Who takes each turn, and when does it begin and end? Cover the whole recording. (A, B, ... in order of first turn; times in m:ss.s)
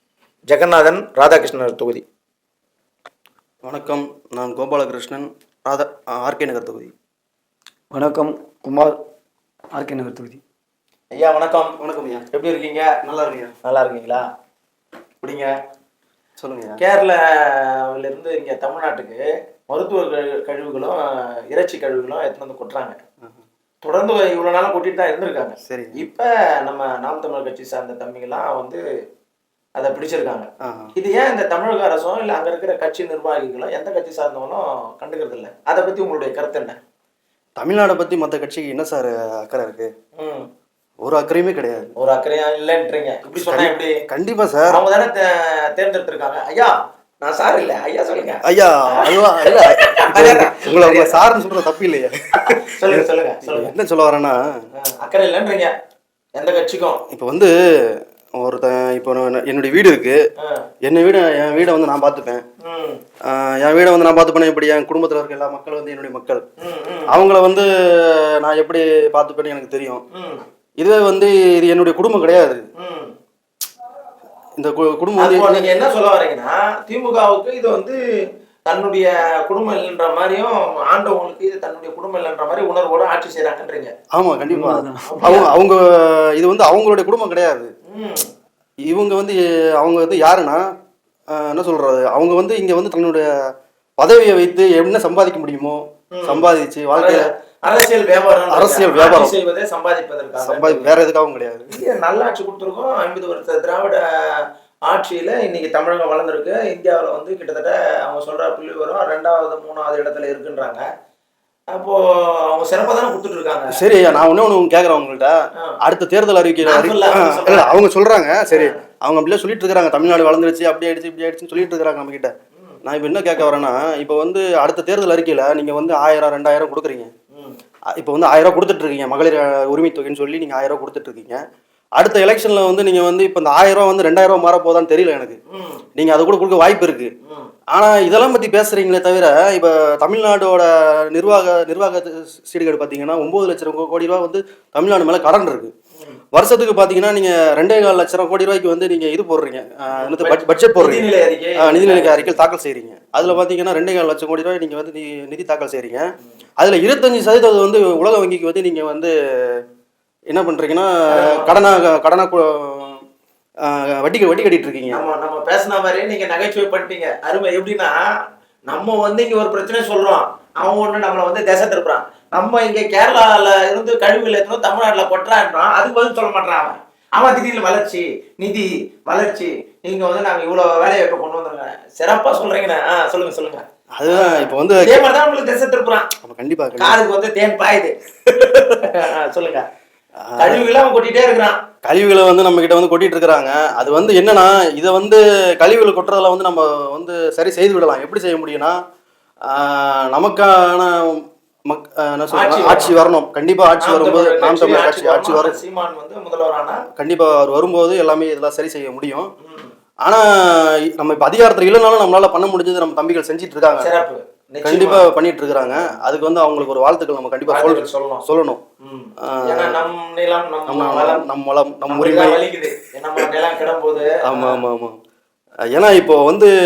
0:00.5-0:02.0 A
0:03.6-0:06.9 B
0:07.9-0:08.9 C
0:09.8-0:10.4 C
0:11.1-0:11.8 A
0:11.8-0:12.2 B
0:12.3-0:12.9 A
0:13.0-0:13.5 B
0:13.6-0:14.2 A
0:15.2-0:15.5 A
0:16.4-0:16.8 B
0:16.8-0:23.0 A
0:23.8-0:28.8 A
0:25.7-0:26.0 B
0:29.8-0:36.8 A
0:30.6-0:30.9 B
0:37.6-0:39.9 B
0:40.2-0:40.5 A
0:41.0-0:41.9 B
0:42.0-0:43.9 A
0:43.4-0:44.8 B
0:44.7-0:51.2 A
0:48.4-0:54.6 B
0:52.4-0:53.7 A
0:54.7-0:55.7 A
0:56.4-0:57.0 A
0:57.1-1:00.2 B
1:00.4-1:00.6 A
1:00.8-1:02.4 B
1:02.6-1:03.0 A
1:03.2-1:06.4 B
1:06.6-1:07.1 A
1:07.1-1:10.0 B
1:10.1-1:10.4 A
1:10.8-1:12.6 B
1:12.8-1:13.1 A
1:14.6-1:15.7 B
1:15.2-1:18.0 A
1:18.7-1:23.9 A
1:24.1-1:27.7 B
1:24.5-1:25.0 C
1:25.1-1:25.5 A
1:27.9-1:28.2 A
1:28.9-1:30.6 B
1:31.3-1:33.3 B
1:34.0-1:37.3 B
1:36.1-1:40.9 A
1:38.5-1:39.3 B
1:40.4-1:41.7 B
1:41.7-1:50.8 A
1:51.7-1:53.8 A
1:53.7-2:02.3 B
1:56.6-1:57.8 A
1:58.5-1:58.8 A
2:02.8-2:07.1 B
2:07.3-2:07.6 A
2:07.9-2:11.4 B
2:12.0-2:15.4 B
2:15.5-2:15.8 A
2:16.0-2:17.1 B
2:17.2-2:17.5 A
2:17.7-2:25.7 B
2:26.3-2:31.1 B
2:30.0-2:32.4 A
2:31.6-2:36.1 B
2:36.6-2:39.6 B
2:40.3-2:43.0 B
2:41.1-2:41.6 A
2:43.6-2:45.0 B
2:44.9-2:48.0 A
2:48.7-3:06.1 A
3:04.0-3:05.0 B
3:06.2-3:07.0 B
3:06.8-3:09.6 A
3:10.2-3:10.7 B
3:10.4-3:11.6 A
3:11.8-3:18.8 B
3:13.8-3:14.1 A
3:19.5-3:25.6 B
3:22.3-3:23.0 A
3:23.8-3:26.8 A
3:27.0-3:29.3 B
3:29.4-3:29.7 A
3:30.0-3:33.9 B
3:33.8-3:35.0 A
3:34.6-3:38.6 B
3:37.5-3:38.2 A
3:38.8-3:41.2 A
3:39.2-3:39.8 B
3:40.7-3:42.4 B
3:41.9-3:44.6 A
3:44.2-3:45.0 B
3:45.7-3:46.5 B